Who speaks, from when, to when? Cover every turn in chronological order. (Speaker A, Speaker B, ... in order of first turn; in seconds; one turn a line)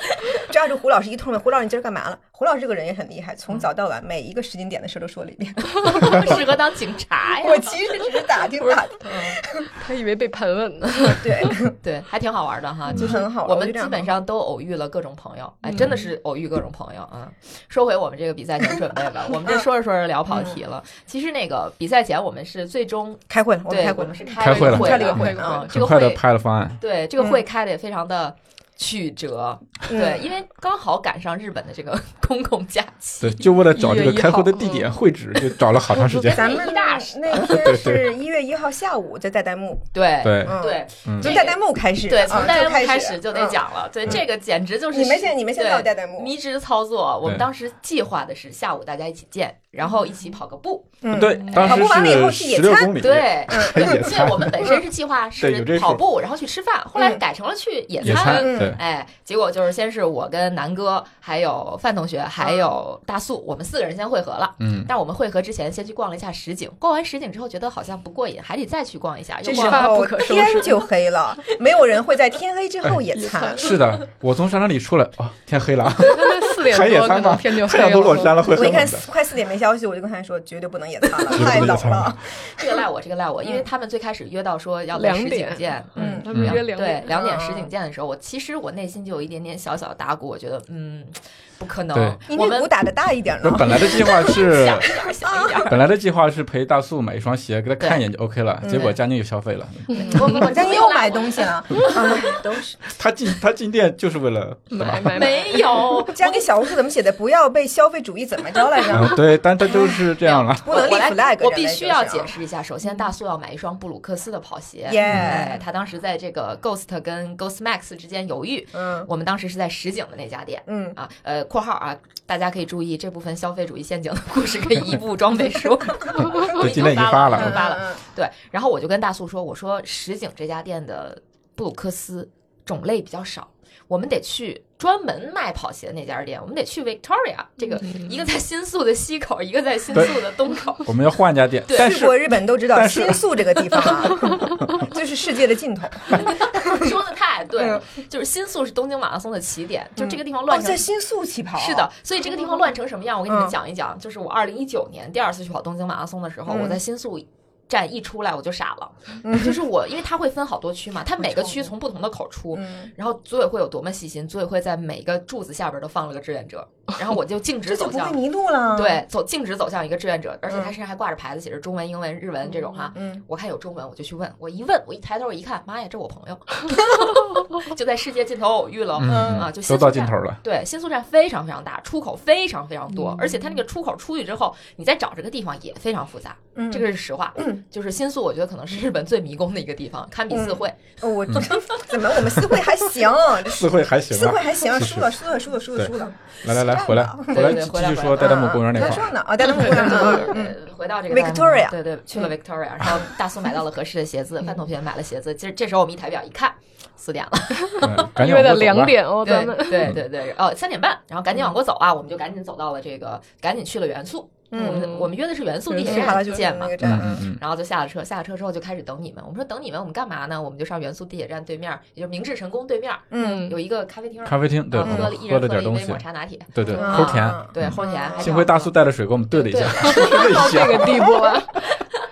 Speaker A: 0.3-6.6
Speaker B: 5.8-7.9
Speaker A: 7.4-9.7
Speaker B: 9.0-9.4
Speaker C: 9.8-11.6
Speaker A: 11.1-11.7
Speaker B: 11.8-26.2
Speaker A: 12.9-14.1
Speaker C: 15.7-16.0
Speaker A: 20.3-20.6
Speaker A: 23.3-25.6
Speaker D: 24.4-26.8
Speaker C: 24.4-25.7
Speaker B: 26.8-33.5
Speaker A: 27.2-27.4
Speaker A: 29.9-30.3
Speaker D: 33.2-36.5
Speaker C: 33.7-34.9
Speaker C: 36.0-36.3
Speaker B: 36.3-37.6
Speaker A: 36.3-39.9
Speaker D: 37.4-38.1
Speaker B: 39.9-50.9
Speaker D: 40.2-41.4
Speaker A: 40.4-44.2
Speaker A: 44.9-46.3
Speaker A: 51.0-54.1
Speaker D: 51.1-54.8
Speaker C: 51.4-51.8
Speaker B: 53.0-70.0
Speaker D: 55.4-56.0
Speaker A: 56.9-57.2
Speaker A: 58.0-58.8
Speaker D: 58.0-58.8
Speaker A: 62.4-62.7
Speaker D: 64.6-64.9
Speaker A: 69.4-73.7
Speaker C: 69.5-70.8
Speaker C: 73.1-73.7
Speaker D: 73.5-79.1
Speaker C: 76.0-78.6
Speaker A: 78.5-82.8
Speaker D: 81.3-82.1
Speaker B: 82.5-92.7
Speaker C: 84.9-87.1
Speaker A: 86.0-86.3
Speaker D: 86.3-86.6
Speaker A: 87.1-87.7
Speaker D: 91.9-92.2
Speaker A: 92.3-94.4
Speaker D: 93.4-94.9
Speaker B: 93.9-95.8
Speaker A: 95.2-95.7
Speaker D: 95.7-100.3
Speaker A: 98.6-98.9
Speaker B: 98.7-99.0
Speaker B: 100.0-102.3
Speaker A: 100.0-102.8
Speaker D: 102.9-105.3
Speaker C: 104.7-106.0
Speaker B: 105.1-106.5
Speaker A: 106.1-112.3
Speaker D: 108.9-110.7
Speaker B: 110.2-140.9
Speaker A: 114.8-115.6
Speaker D: 115.1-115.3
Speaker A: 118.7-119.1
Speaker A: 120.7-121.0
Speaker D: 126.2-127.7
Speaker A: 127.3-128.0
Speaker D: 140.8-144.7
Speaker B: 141.7-142.0
Speaker A: 141.7-146.9
Speaker B: 146.2-150.8
Speaker A: 147.6-147.8
Speaker A: 150.0-151.9
Speaker B: 151.5-168.2
Speaker A: 153.3-153.5
Speaker A: 156.5-156.8
Speaker A: 159.2-159.6
Speaker A: 161.2-161.7
Speaker A: 162.5-162.9
Speaker A: 167.7-169.0
Speaker B: 168.7-190.8
Speaker A: 170.5-170.7
Speaker A: 172.9-173.2
Speaker D: 179.0-180.4
Speaker A: 179.1-179.5
Speaker C: 183.0-183.3
Speaker A: 186.5-186.8
Speaker A: 190.3-197.6
Speaker B: 191.4-191.8
Speaker D: 193.4-195.1
Speaker D: 195.7-199.1
Speaker B: 197.3-208.1
Speaker A: 198.2-200.6
Speaker C: 199.7-200.3
Speaker A: 201.1-202.3
Speaker A: 202.8-203.1
Speaker C: 207.7-209.9
Speaker D: 207.8-209.1
Speaker B: 209.2-228.7
Speaker A: 214.5-214.9
Speaker C: 214.6-215.1
Speaker A: 215.7-217.2
Speaker C: 215.8-216.2
Speaker D: 216.8-217.4
Speaker A: 223.1-223.5
Speaker C: 223.2-223.6
Speaker D: 224.2-231.3
Speaker A: 224.8-225.1
Speaker A: 226.7-228.4
Speaker B: 229.3-230.4
Speaker C: 229.8-231.7